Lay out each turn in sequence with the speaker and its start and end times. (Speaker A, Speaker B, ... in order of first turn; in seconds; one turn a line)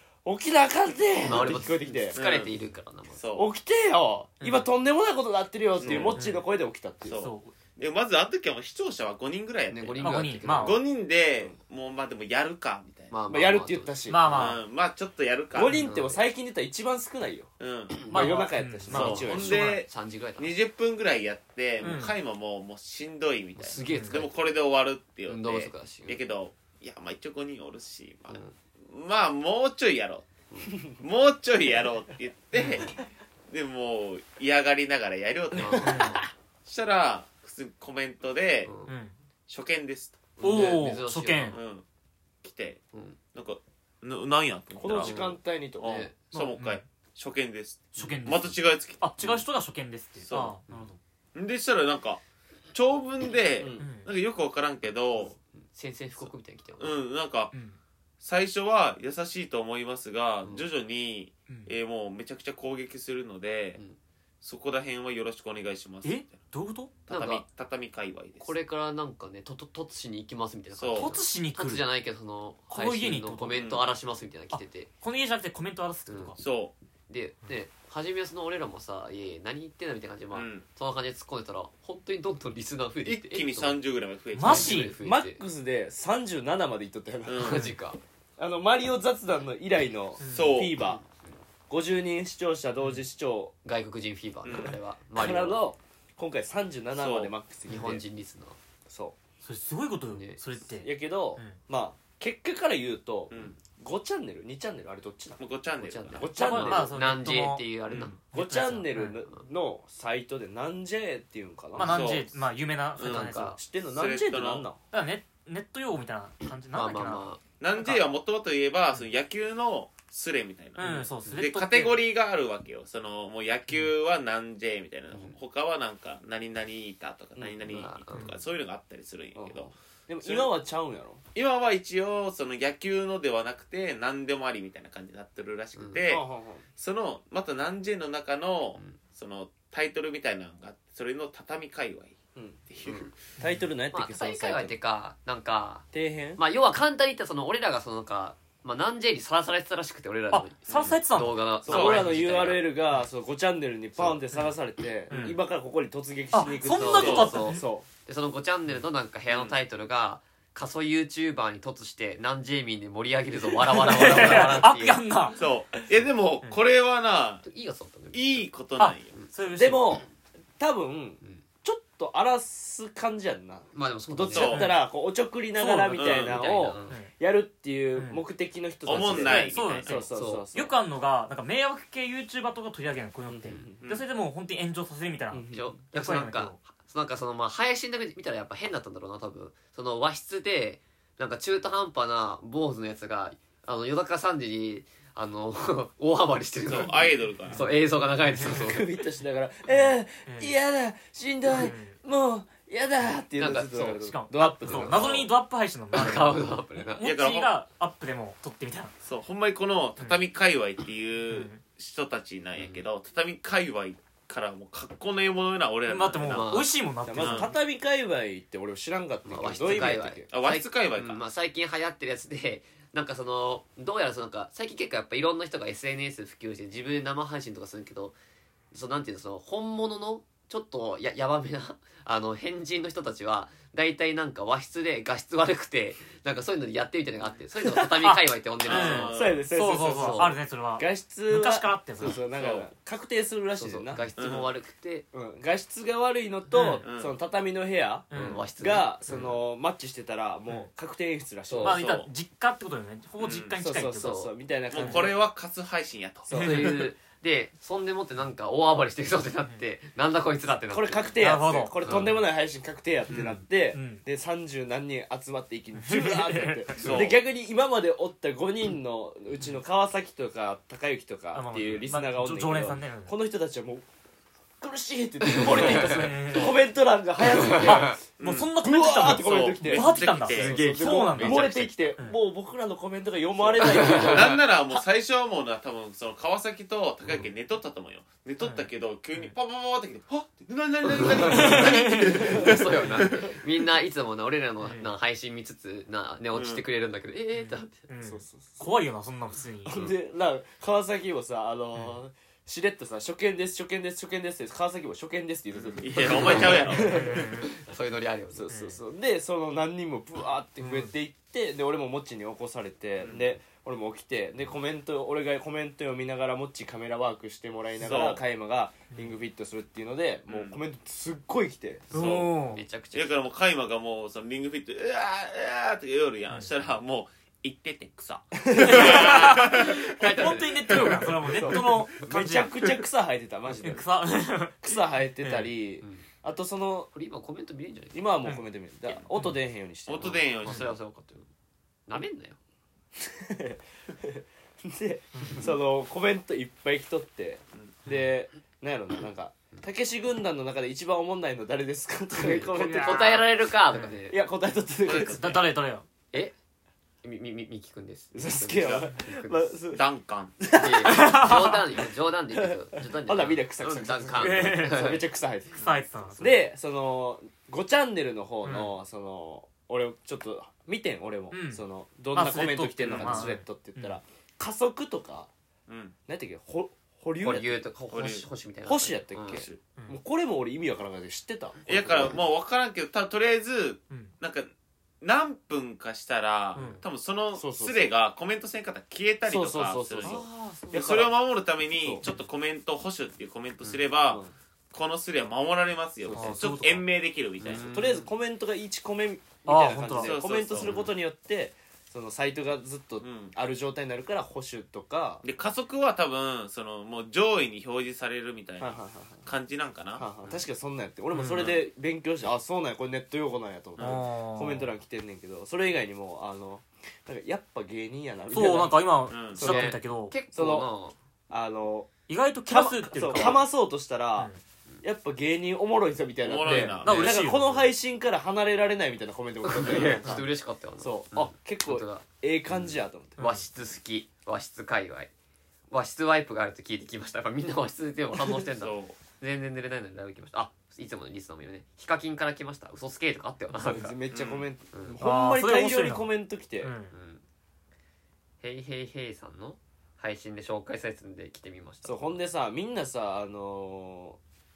Speaker A: 0.2-2.2
Speaker B: 1.2-3.2
Speaker C: 2.1-2.5
Speaker C: 3.1-3.5
Speaker A: 3.3-7.2
Speaker D: 4.4-4.7
Speaker C: 5.8-6.2
Speaker B: 5.8-6.2
Speaker D: 6.1-6.4
Speaker C: 7.0-13.1
Speaker D: 7.2-7.5
Speaker B: 9.7-10.8
Speaker D: 10.0-10.8
Speaker B: 13.1-14.6
Speaker A: 13.3-14.3
Speaker D: 14.1-14.6
Speaker C: 14.3-15.9
Speaker A: 15.5-17.5
Speaker B: 15.8-16.2
Speaker C: 17.6-18.3
Speaker A: 18.1-19.7
Speaker D: 18.1-19.7
Speaker C: 18.9-30.2
Speaker B: 18.9-20.5
Speaker D: 21.8-22.1
Speaker B: 23.6-24.3
Speaker D: 23.9-24.2
Speaker B: 25.3-26.2
Speaker C: 30.8-38.7
Speaker B: 35.5-36.2
Speaker A: 35.8-36.1
Speaker D: 35.8-36.2
Speaker B: 38.6-38.9
Speaker D: 38.9-39.1
Speaker C: 39.5-40.8
Speaker B: 40.4-41.6
Speaker D: 40.4-41.6
Speaker C: 41.5-41.8
Speaker C: 42.4-42.8
Speaker B: 42.9-43.2
Speaker C: 43.3-49.1
Speaker A: 44.8-46.0
Speaker B: 45.0-46.1
Speaker D: 46.3-46.8
Speaker B: 48.0-48.5
Speaker D: 48.0-51.0
Speaker C: 50.2-50.6
Speaker C: 51.3-52.2
Speaker C: 52.7-55.4
Speaker A: 53.6-53.9
Speaker D: 53.8-54.1
Speaker B: 55.5-57.0
Speaker C: 56.2-57.5
Speaker D: 57.5-57.8
Speaker C: 58.2-63.8
Speaker C: 64.4-66.4
Speaker D: 66.0-66.9
Speaker C: 67.0-68.5
Speaker B: 67.1-67.4
Speaker B: 68.4-74.9
Speaker C: 70.7-71.2
Speaker D: 70.9-71.8
Speaker D: 72.7-73.6
Speaker C: 73.5-73.9
Speaker D: 74.5-76.4
Speaker B: 76.1-76.4
Speaker C: 76.4-76.7
Speaker B: 77.1-83.8
Speaker C: 80.3-80.6
Speaker C: 83.0-84.9
Speaker D: 84.3-84.9
Speaker B: 84.4-85.4
Speaker A: 85.0-87.7
Speaker C: 87.2-87.7
Speaker B: 87.4-88.0
Speaker A: 88.4-91.0
Speaker D: 90.2-90.6
Speaker C: 90.2-90.8
Speaker A: 91.7-93.5
Speaker B: 93.6-95.6
Speaker C: 94.4-94.8
Speaker A: 95.1-98.0
Speaker C: 96.9-97.3
Speaker B: 97.7-98.6
Speaker A: 98.8-99.2
Speaker D: 99.4-101.6
Speaker B: 100.1-100.4
Speaker A: 100.6-105.4
Speaker C: 103.3-103.5
Speaker C: 105.4-106.3
Speaker B: 105.8-108.2
Speaker A: 106.1-107.0
Speaker D: 106.3-109.2
Speaker C: 107.9-108.1
Speaker A: 108.3-112.0
Speaker D: 111.7-113.6
Speaker C: 111.8-112.4
Speaker C: 113.0-113.3
Speaker B: 113.0-113.6
Speaker A: 113.3-114.8
Speaker C: 113.9-114.6
Speaker D: 114.9-118.0
Speaker B: 116.7-117.4
Speaker C: 117.6-130.5
Speaker D: 120.8-122.0
Speaker A: 127.4-127.8
Speaker B: 127.7-128.3
Speaker A: 129.3-131.2
Speaker C: 131.3-136.2
Speaker B: 135.8-136.0
Speaker A: 136.1-136.6
Speaker C: 136.8-142.2
Speaker C: 142.7-143.2
Speaker D: 143.4-143.7
Speaker A: 143.4-144.7
Speaker B: 143.9-145.8
Speaker A: 145.9-146.4
Speaker B: 146.4-152.7
Speaker D: 150.3-152.1
Speaker C: 150.7-150.9
Speaker A: 151.6-157.9
Speaker C: 151.7-152.1
Speaker D: 155.1-155.4
Speaker D: 156.3-157.6
Speaker B: 156.7-165.0
Speaker C: 157.0-157.3
Speaker C: 159.3-159.6
Speaker D: 163.6-165.4
Speaker C: 164.2-164.5
Speaker C: 165.4-167.4
Speaker B: 167.4-168.5
Speaker C: 168.1-169.2
Speaker D: 168.8-170.0
Speaker A: 169.6-170.1
Speaker A: 170.6-180.7
Speaker B: 173.7-174.6
Speaker C: 174.3-174.7
Speaker D: 174.5-174.8
Speaker D: 175.6-175.9
Speaker C: 175.9-176.4
Speaker B: 176.0-177.0
Speaker D: 177.9-178.2
Speaker C: 178.8-180.0
Speaker D: 178.9-186.6
Speaker B: 179.9-180.4
Speaker A: 183.3-183.7
Speaker C: 183.8-184.1
Speaker A: 185.3-185.7
Speaker B: 185.5-198.9
Speaker C: 196.7-197.6
Speaker D: 198.3-198.7
Speaker A: 198.4-205.3
Speaker D: 199.7-200.5
Speaker D: 201.5-202.0
Speaker B: 203.3-204.0
Speaker D: 203.9-208.9
Speaker B: 204.7-205.1
Speaker B: 205.9-207.1
Speaker C: 207.0-207.6
Speaker C: 209.0-216.5
Speaker D: 211.3-211.6
Speaker B: 212.6-212.8
Speaker D: 215.9-217.5
Speaker B: 216.3-216.7
Speaker A: 217.0-220.3
Speaker C: 217.2-217.5
Speaker B: 219.3-228.2
Speaker C: 220.3-221.2
Speaker B: 228.7-239.2
Speaker A: 237.7-238.0
Speaker D: 238.0-242.2
Speaker C: 238.6-239.5
Speaker A: 239.1-244.1
Speaker B: 239.9-240.3
Speaker C: 242.3-242.7
Speaker B: 243.6-245.1
Speaker C: 244.2-244.5
Speaker A: 245.1-251.8
Speaker D: 246.5-246.8
Speaker C: 246.8-247.1
Speaker D: 248.1-248.4
Speaker B: 248.1-249.3
Speaker B: 251.5-251.8
Speaker D: 251.6-255.1
Speaker C: 251.7-252.1
Speaker C: 253.2-253.6
Speaker A: 253.6-255.1
Speaker B: 254.0-254.3
Speaker C: 254.7-256.3
Speaker A: 256.3-256.9
Speaker B: 256.3-261.1
Speaker D: 256.3-256.8
Speaker A: 260.7-273.8
Speaker D: 261.2-262.1
Speaker B: 261.8-262.1
Speaker D: 263.1-264.0
Speaker D: 265.8-266.8
Speaker C: 266.7-267.2
Speaker D: 271.3-273.1
Speaker A: 274.6-278.0
Speaker B: 275.2-276.1
Speaker D: 275.4-276.6
Speaker B: 277.2-278.0
Speaker D: 277.6-282.1
Speaker C: 278.2-278.5
Speaker A: 278.6-284.4
Speaker C: 279.0-280.5
Speaker B: 280.3-281.9
Speaker C: 283.4-293.3
Speaker B: 283.6-284.4
Speaker D: 288.4-289.3
Speaker B: 290.9-297.8
Speaker D: 291.2-292.4
Speaker A: 292.2-292.6
Speaker D: 294.6-294.9
Speaker C: 296.3-296.6
Speaker D: 297.4-299.9
Speaker A: 298.0-298.7
Speaker A: 299.6-307.4
Speaker C: 305.6-307.0
Speaker B: 306.0-308.4
Speaker D: 306.7-307.5
Speaker A: 308.3-321.9
Speaker D: 308.5-308.8
Speaker D: 310.6-310.9
Speaker C: 313.0-313.2
Speaker C: 317.8-318.2
Speaker C: 320.3-320.6
Speaker C: 321.9-322.3
Speaker D: 321.9-322.6
Speaker B: 322.0-323.2
Speaker C: 322.9-329.9
Speaker A: 328.4-329.1
Speaker D: 328.5-332.7
Speaker B: 328.7-331.0
Speaker A: 331.2-333.9
Speaker D: 333.6-334.6
Speaker A: 334.6-336.9
Speaker D: 335.2-335.5
Speaker B: 336.9-338.1
Speaker A: 337.9-340.2
Speaker C: 339.9-340.7
Speaker B: 340.0-341.3
Speaker B: 341.9-342.4
Speaker A: 343.0-353.2
Speaker D: 345.1-345.5
Speaker B: 352.2-354.2
Speaker D: 352.5-353.9
Speaker A: 354.1-355.4
Speaker C: 354.8-355.5
Speaker D: 355.1-355.9
Speaker B: 357.0-359.5
Speaker A: 358.1-359.8
Speaker C: 358.6-358.9
Speaker C: 359.7-360.4
Speaker A: 360.4-361.6
Speaker B: 360.5-365.0
Speaker D: 360.8-361.6
Speaker A: 362.3-365.6
Speaker D: 364.2-364.9
Speaker D: 365.6-366.4
Speaker A: 366.2-375.3
Speaker D: 368.4-368.7
Speaker D: 371.3-371.6
Speaker D: 372.1-374.0
Speaker C: 372.8-373.4
Speaker C: 375.7-375.9
Speaker A: 376.1-377.6
Speaker B: 377.2-379.4
Speaker C: 377.9-378.2
Speaker A: 378.6-382.2
Speaker C: 379.3-379.6
Speaker C: 381.7-397.7
Speaker D: 386.5-386.8
Speaker A: 387.3-387.9
Speaker A: 389.3-391.1
Speaker D: 390.0-390.7
Speaker A: 394.1-394.3
Speaker A: 396.0-396.4
Speaker D: 396.1-396.8
Speaker B: 397.4-398.1
Speaker A: 397.6-405.2
Speaker D: 399.4-400.2
Speaker C: 399.9-400.8
Speaker B: 400.6-400.9
Speaker C: 403.0-403.3
Speaker C: 405.2-410.1
Speaker A: 408.6-409.2
Speaker A: 410.0-418.8
Speaker D: 411.1-411.5
Speaker C: 411.3-411.6
Speaker C: 413.8-414.0
Speaker D: 413.8-414.7
Speaker D: 418.3-420.1
Speaker C: 419.1-419.6
Speaker A: 419.3-419.7
Speaker B: 419.4-420.9
Speaker A: 420.3-420.7
Speaker A: 421.3-421.9
Speaker D: 422.1-423.4
Speaker A: 422.4-424.3
Speaker A: 424.8-430.3
Speaker C: 426.2-427.3
Speaker D: 426.4-427.6
Speaker B: 429.4-435.1
Speaker D: 429.9-430.2
Speaker A: 430.8-433.2
Speaker D: 433.2-433.4
Speaker B: 435.7-444.0
Speaker C: 438.6-439.0
Speaker A: 443.5-446.7
Speaker C: 444.1-444.5
Speaker D: 445.0-446.1
Speaker D: 446.6-446.9
Speaker B: 446.9-447.2
Speaker B: 448.4-452.2
Speaker A: 451.8-454.2